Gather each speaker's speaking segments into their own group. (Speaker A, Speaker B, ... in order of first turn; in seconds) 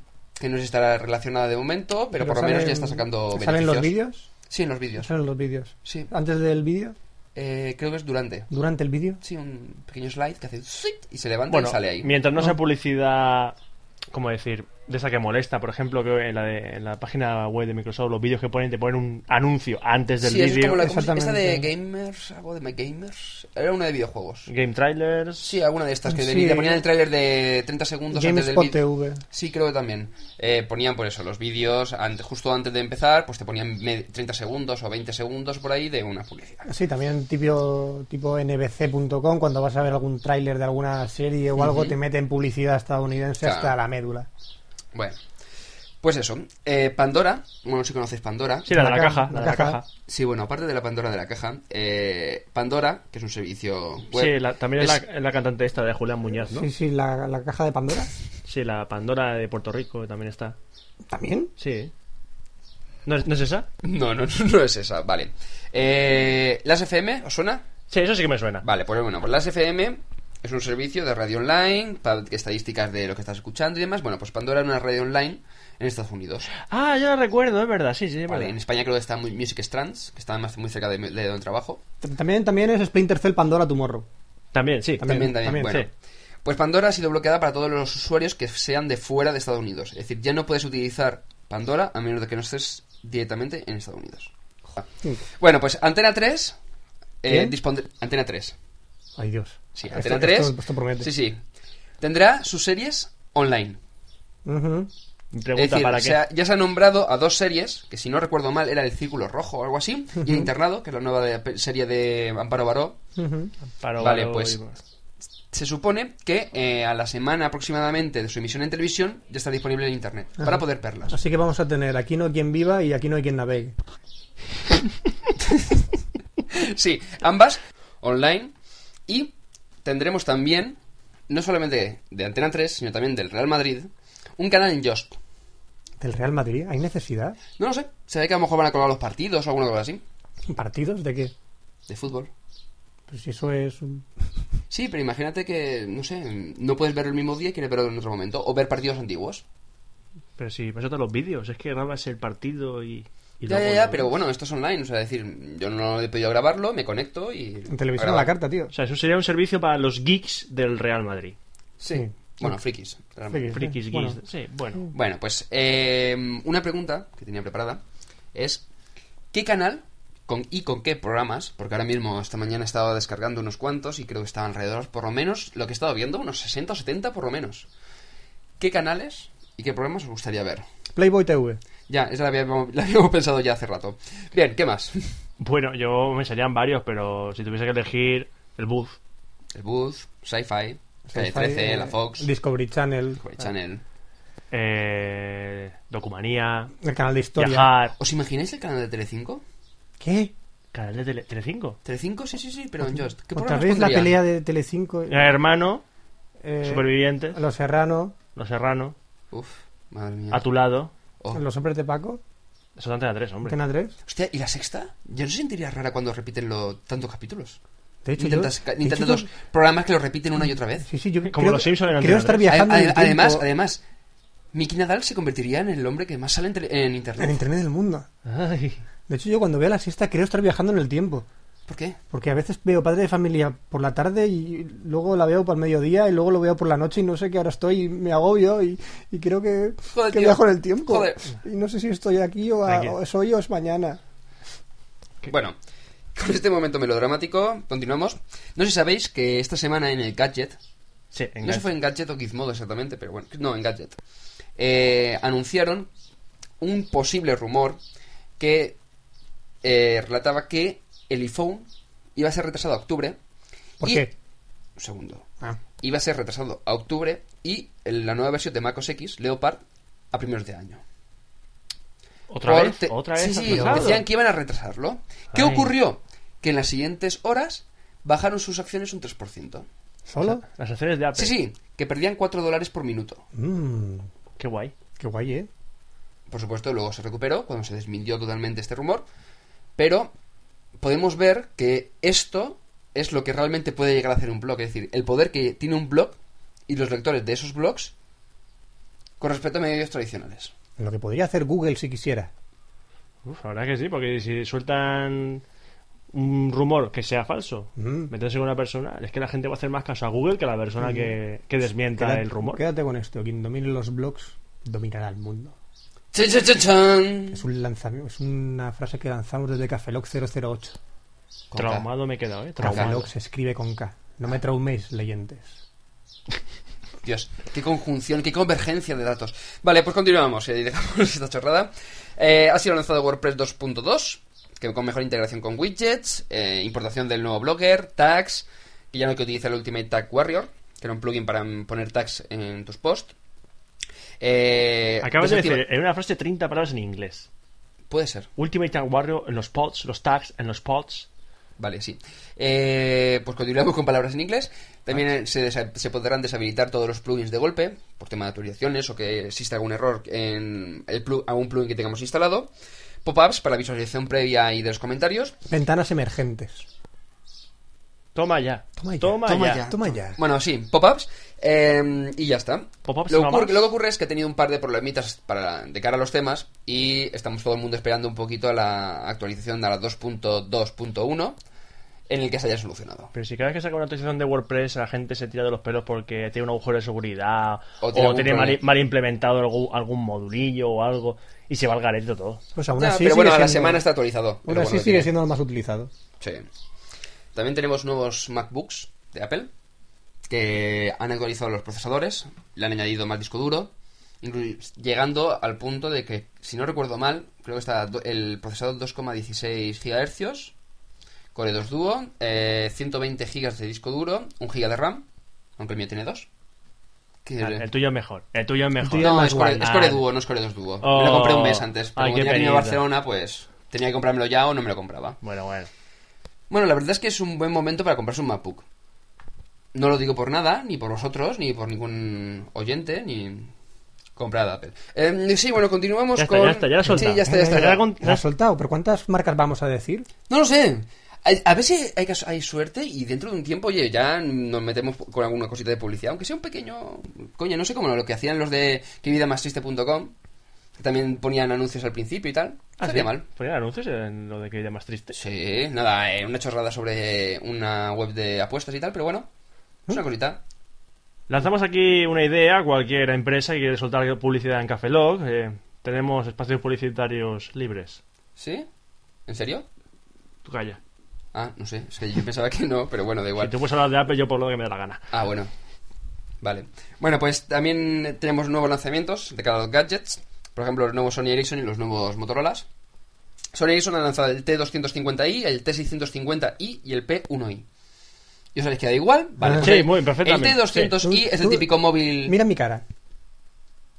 Speaker A: 0.4-3.9, 4.5-5.1, 5.8-6.1, 7.3-8.5, 9.2-12.1, 20.2-24.5, 25.4-28.8, 29.3-36.7, 41.6-42.0, 43.4-43.8, 44.9-45.2, 46.0-48.7, 50.1-55.0, 63.8-67.7, 68.6-76.5, 78.3-81.8, 85.0-85.9, 86.4-94.8, 95.4-96.6, 97.2-98.5, 99.8-101.4, 102.0-103.8, 105.6-113.0, 114.0-114.6, 115.5-121.2, 126.5-128.5, 129.1-129.3, 129.8-130.8, 131.3-135.2, 137.6-140.0, 141.9-142.3, 144.7-149.4, 153.5-158.3, 161.8-163.6, 164.9-167.8, 168.3-168.6, 169.3-177.7, 178.6-180.7, 181.9-185.0, 189.5-192.3, 193.2-193.8, 198.0-199.4, 201.8-204.2, 209.3-210.4, 214.1-217.6, 218.2-220.9, 222.5-223.8, 224.5-227.4, 231.7-232.0, 239.9-241.3, 245.3-245.6, 246.2-250.6, 251.4-254.0, 254.6-255.9, 256.6-257.8, 258.4-258.8, 259.6-263.2, 263.8-264.1, 264.8-265.3, 265.8-270.8, 272.4-279.7, 281.2-283.2, 286.3-289.1, 289.8-290.1, 290.8-297.9, 299.2-300.5, 316.1-317.4, 321.5-321.9, 327.0-343.1, 344.2-345.6, 347.9-348.3, 351.6-362.5, 363.1-365.4, 369.3-381.4, 382.1-383.1, 387.8-388.6, 392.8-395.1, 396.2-396.5, 397.4-399.5, 400.3-410.5, 411.4-415.1, 415.6-416.3, 417.2-417.7, 419.0-425.2, 426.5-428.6, 429.7-433.5, 434.2-437.9, 440.3-450.1, 450.8-453.2, 455.1-459.3, 459.9-460.4, 468.4-468.7, 469.3-469.7, 471.3-473.6, 475.1-475.5, 476.4-482.7, 483.5-487.7, 488.6-492.4
Speaker B: 2.1-4.3, 5.0-7.0, 8.5-9.2, 20.8-21.7, 26.1-26.8, 28.1-29.2, 36.7-44.3, 48.7-49.8, 56.5-58.1, 61.1-61.5, 82.0-84.1, 85.0-85.8, 97.3-97.5, 99.2-101.1, 104.5-104.9, 113.2-113.5, 120.4-123.8, 136.0-137.4, 140.5-141.3, 143.1-144.1, 157.7-158.7, 161.9-162.6, 163.3-164.2, 180.9-181.6, 191.1-193.2, 196.8-197.7, 200.0-200.3, 202.9-205.3, 206.4-208.2, 211.3-212.2, 213.4-213.9, 218.0-219.3, 220.8-223.4, 227.2-228.1, 229.1-231.3, 232.1-244.0, 263.8-264.1, 273.5-273.9, 280.1-280.4, 283.3-284.1, 285.0-285.5, 300.8-302.3, 307.8-308.1, 310.8-311.2, 311.9-315.6, 317.3-320.8, 322.6-325.6, 365.5-366.7, 368.8-370.2, 392.6-393.9, 394.4-395.9, 418.8-419.7, 436.9-440.1, 489.4-489.8, 491.0-491.7, 492.2-492.8
Speaker C: 11.5-13.6, 14.1-20.8, 24.5-25.5, 48.6-49.9, 54.1-56.7, 58.5-60.6, 61.6-61.9, 63.1-63.7, 67.9-68.7, 76.6-78.5, 84.5-85.9, 105.3-106.2, 113.8-114.8, 150.4-154.1, 158.7-161.4, 163.5-164.9, 185.4-189.0, 194.5-196.7, 197.4-197.9, 200.7-201.8, 205.1-205.8, 206.6-207.4, 208.3-208.9, 210.3-210.9, 212.8-213.6, 221.3-222.6, 228.3-228.8, 242.7-242.9, 251.1-251.7, 272.3-274.0, 275.3-275.7, 280.2-281.3, 284.4-284.8, 303.2-305.4, 306.1-312.6, 321.6-323.1, 345.0-347.3, 348.4-351.1, 368.1-369.7, 372.9-373.6, 383.1-392.4, 417.4-420.0, 420.8-422.8, 425.2-425.7, 436.2-438.2, 452.8-455.2, 461.3-468.0, 470.4-470.8, 473.4-475.0, 489.6-490.9